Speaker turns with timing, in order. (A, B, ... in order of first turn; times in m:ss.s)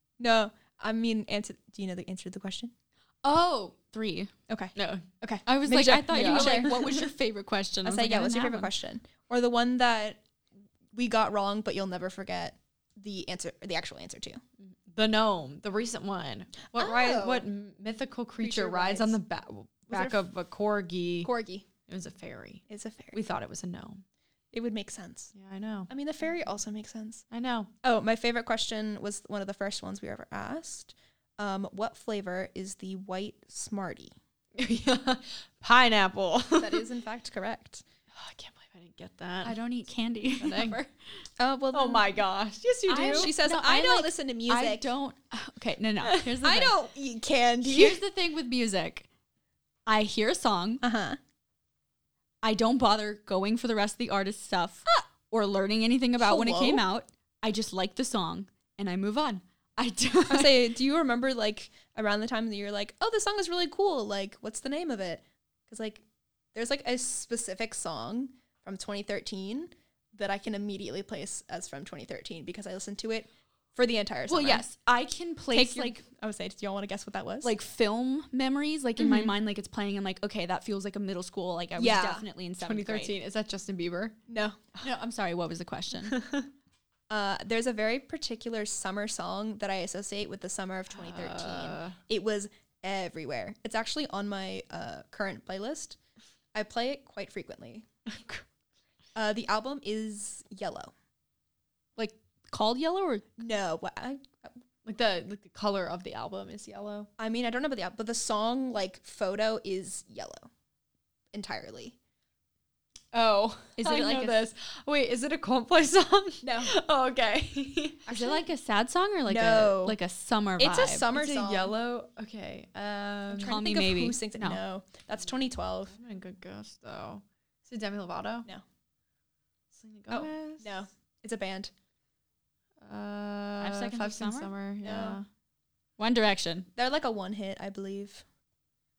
0:00.2-0:02.7 A
0:03.2-0:04.3 B
0:04.5-0:07.1 A
0:04.8-0:05.1 C
0:05.5-0:08.7 B
0:06.1-0:06.9 C
0:07.8-0:10.2 A
0:10.9-0:14.4 A
0:14.6-0:21.3 C
0:16.7-0:17.5 A
0:18.4-0:19.2 A
0:19.9-0:20.3 A
0:21.2-0:21.6 A
0:21.9-0:22.6 C
0:22.7-0:23.2 A
0:23.1-0:24.0 C
0:24.5-0:25.3 A
0:25.3-0:25.9 C
0:25.9-0:27.2 A
0:27.3-0:27.7 C
0:27.8-0:34.1 A
0:34.5-0:36.8 C
0:36.5-0:37.8 A
0:38.1-0:39.6 C
0:39.4-0:40.9 B
0:40.4-0:40.8 C
0:41.4-0:42.2 A
0:41.7-0:43.3 C
0:42.9-0:46.8 B
0:43.0-0:44.9 A
0:46.0-0:46.3 C
0:46.4-0:48.0 A
0:47.6-0:49.1 B
0:49.8-0:50.8 B
0:50.8-0:51.2 A
0:52.4-1:00.7 B
0:56.2-0:56.8 A
1:00.3-1:14.7 A
1:14.3-1:16.0 B
1:15.5-1:17.5 A
1:17.4-1:23.1 B
1:19.0-1:19.3 A
1:21.8-1:22.2 A
1:22.6-1:24.2 C
1:24.3-1:24.6 A
1:24.8-1:26.2 B
1:26.1-1:26.5 C
1:27.1-1:36.0 A
1:30.9-1:32.0 C
1:36.5-1:37.8 A
1:38.1-1:38.4 C
1:39.2-1:40.9 A
1:42.0-1:43.4 B
1:43.4-1:44.3 A
1:44.8-1:47.1 C
1:47.2-1:50.5 A
1:51.3-1:52.0 A
1:53.1-1:58.0 C
1:53.8-1:54.4 B
1:56.4-1:56.7 A
1:58.1-1:58.5 A
1:58.1-2:01.1 B
1:59.3-2:00.0 A
2:00.6-2:01.7 A
2:01.1-2:03.6 C
2:03.3-2:05.9 A
2:03.4-2:04.6 B
2:05.9-2:08.5 C
2:09.7-2:10.8 C
2:10.1-2:11.7 A
2:12.8-2:15.2 C
2:13.6-2:14.5 B
2:14.8-2:15.2 A
2:16.0-2:16.7 B
2:16.8-2:18.2 A